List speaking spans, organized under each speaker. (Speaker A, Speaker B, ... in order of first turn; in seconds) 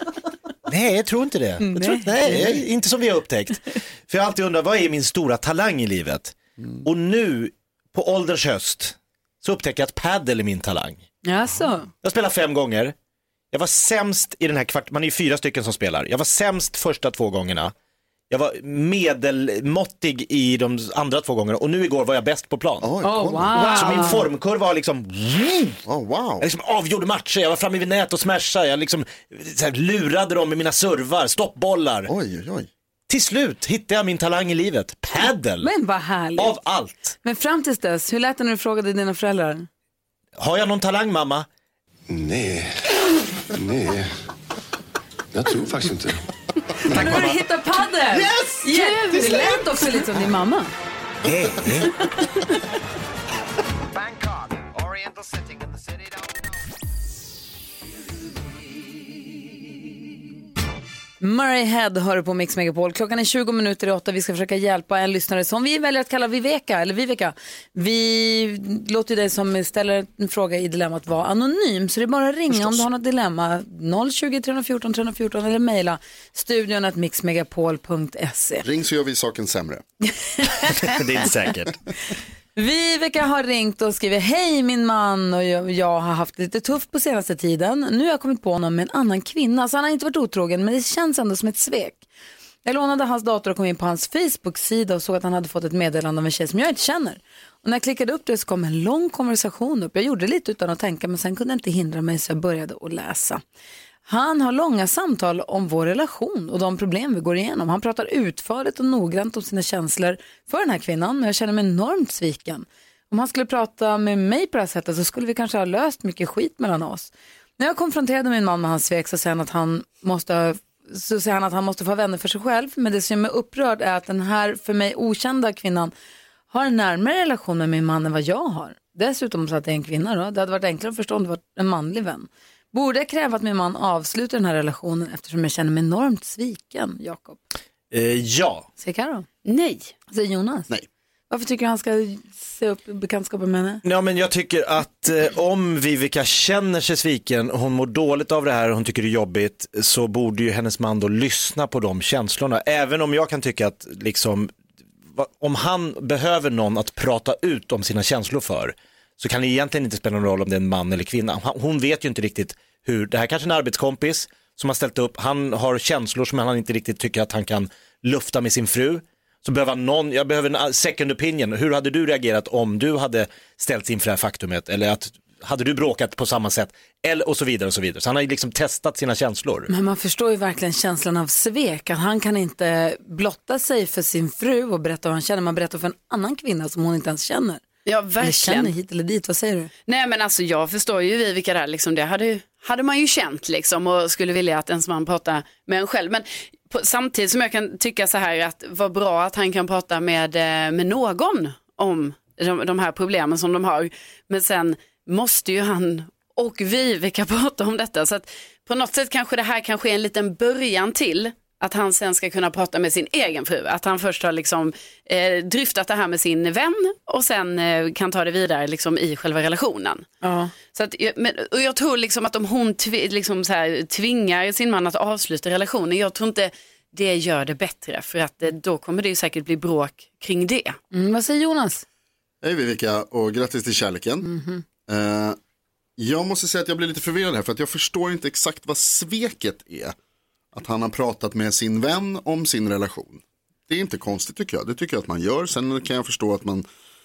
Speaker A: 0.7-11.0, 12.0-12.9, 13.5-17.7, 18.3-22.9, 23.4-25.8, 26.4-32.1, 33.1-35.7, 36.4-37.1, 40.4-41.5, 46.9-47.4, 51.2-51.9, 80.7-81.8, 137.9-138.7, 143.8-154.5, 155.1-179.7
Speaker B: 1.6-2.4, 11.2-11.9, 23.0-24.2, 35.6-36.5, 37.2-39.6, 46.8-50.7, 61.2-78.6, 80.2-80.9, 82.5-92.0, 92.6-103.4, 104.1-125.9, 126.5-137.4, 138.8-139.3, 140.1-140.7, 141.3-143.8, 179.7-187.6, 188.2-189.7, 220.2-220.5, 230.9-231.8, 234.2-234.6
Speaker C: 2.2-2.6, 6.6-6.8, 22.8-23.9, 25.9-26.4, 32.1-32.7, 72.5-72.8, 78.6-79.8, 232.4-234.3, 234.9-235.4, 236.0-239.9, 240.5-246.7
Speaker D: 42.1-42.8, 43.5-44.1, 45.3-46.2
Speaker E: 48.7-49.9, 139.4-139.9, 187.8-188.7, 189.9-220.1, 220.7-230.8